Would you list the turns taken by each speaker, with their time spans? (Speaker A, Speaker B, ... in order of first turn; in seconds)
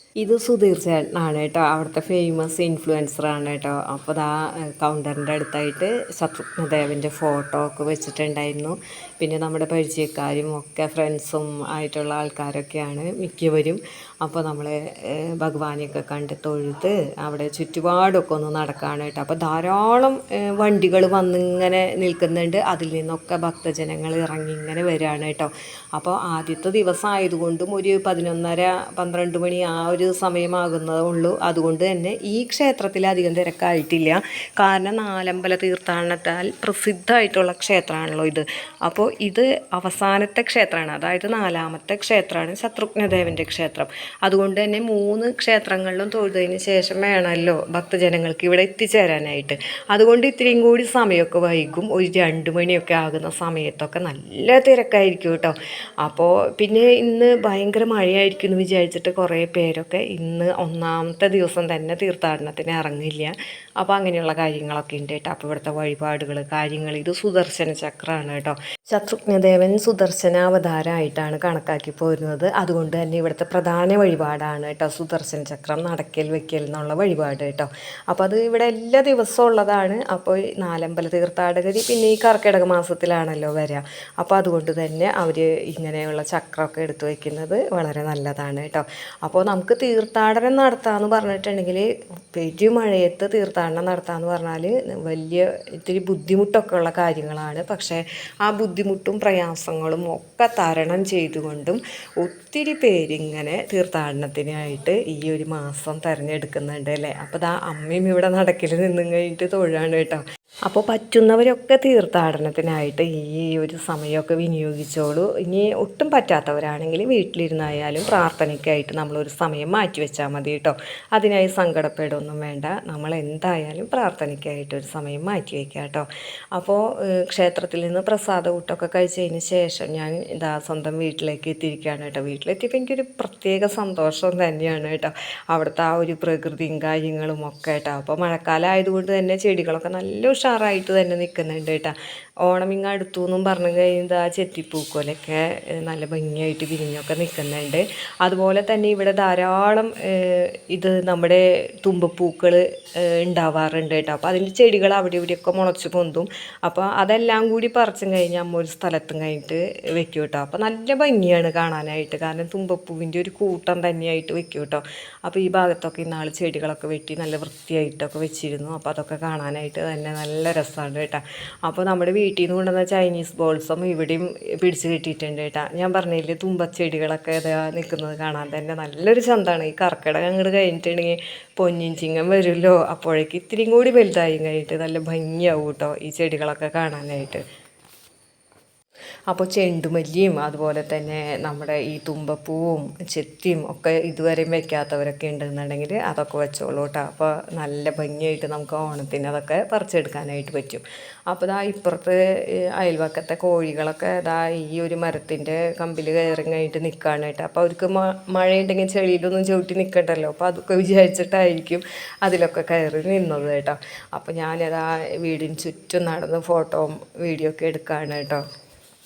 Speaker A: 0.2-187.4, 189.3-218.4